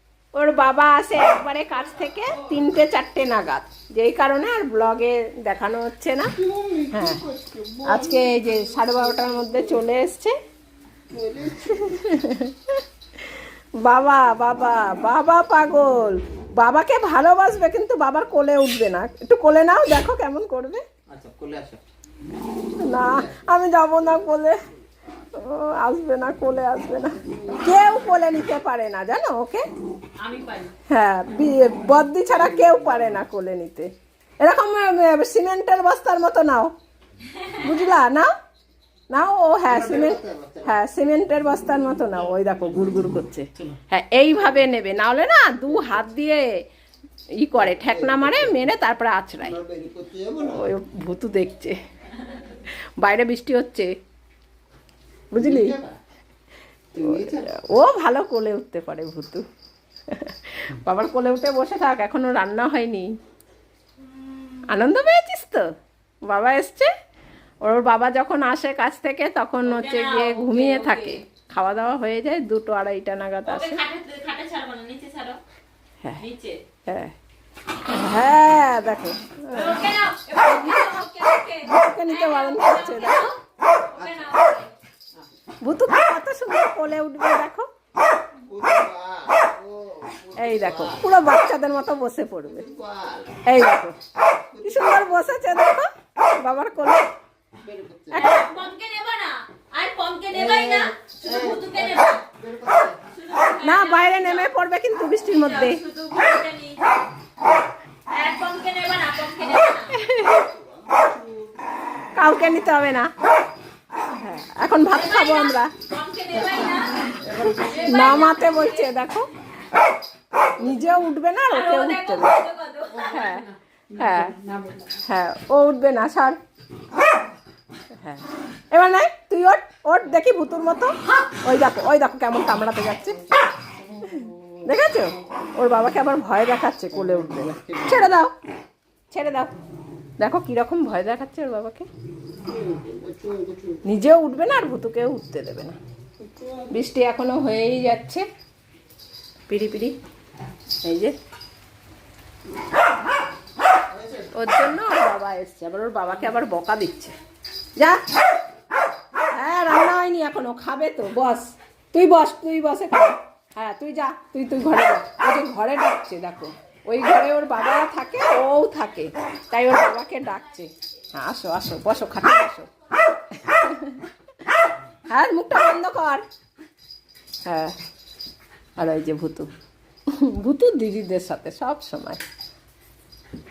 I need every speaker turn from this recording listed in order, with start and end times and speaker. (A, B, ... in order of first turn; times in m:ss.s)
0:00.3-0:07.3 A
0:06.4-0:08.2 B
0:07.8-0:10.3 A
0:11.1-0:11.9 B
0:11.5-0:20.8 A
0:21.1-0:21.8 B
0:22.6-0:24.6 A
0:25.3-0:29.6 A
0:30.2-0:30.7 C
0:30.9-0:36.7 A
0:37.5-0:38.3 A
0:39.1-0:46.5 A
0:47.4-0:49.6 A
0:49.6-0:50.5 B
0:50.4-0:51.8 A
0:52.5-0:53.9 A
0:55.3-0:55.8 A
0:55.6-0:55.9 B
0:56.9-0:59.4 A
0:57.0-0:57.5 B
1:00.1-1:03.1 A
1:04.6-1:05.7 A
1:06.2-1:06.9 A
1:07.6-1:13.8 A
1:09.6-1:11.2 C
1:13.4-1:15.4 C
1:16.2-1:16.6 C
1:16.8-1:17.1 A
1:17.8-1:20.9 A
1:19.5-1:24.7 C
1:21.6-1:23.3 A
1:25.6-1:27.7 A
1:28.5-1:30.9 B
1:30.3-1:32.7 A
1:32.7-1:33.4 B
1:33.4-1:34.0 A
1:34.5-1:37.1 A
1:37.6-1:38.2 B
1:38.1-1:42.2 C
1:42.4-1:42.9 B
1:42.9-1:44.5 C
1:43.6-1:45.8 A
1:45.1-1:47.1 C
1:48.1-1:50.0 C
1:49.9-1:50.5 A
1:50.4-1:51.3 B
1:52.1-1:53.1 A
1:54.1-1:55.7 A
1:54.9-1:58.9 C
1:57.8-1:59.3 A
2:00.5-2:04.4 A
2:01.5-2:03.2 C
2:04.4-2:04.8 C
2:04.9-2:06.4 A
2:07.9-2:13.3 A
2:14.6-2:18.3 A
2:19.1-2:19.5 A
2:20.2-2:21.9 A
2:22.6-2:23.8 B
2:23.8-2:25.8 A
2:26.4-2:26.7 B
2:26.7-2:28.3 A
2:29.5-2:30.0 A
2:30.8-2:31.1 A
2:34.3-2:37.2 A
2:37.8-2:38.0 A
2:39.3-2:52.7 A
2:53.3-2:54.1 A
2:55.1-2:56.2 A
2:57.4-2:57.8 A
2:58.8-2:59.5 A
3:00.1-3:02.2 A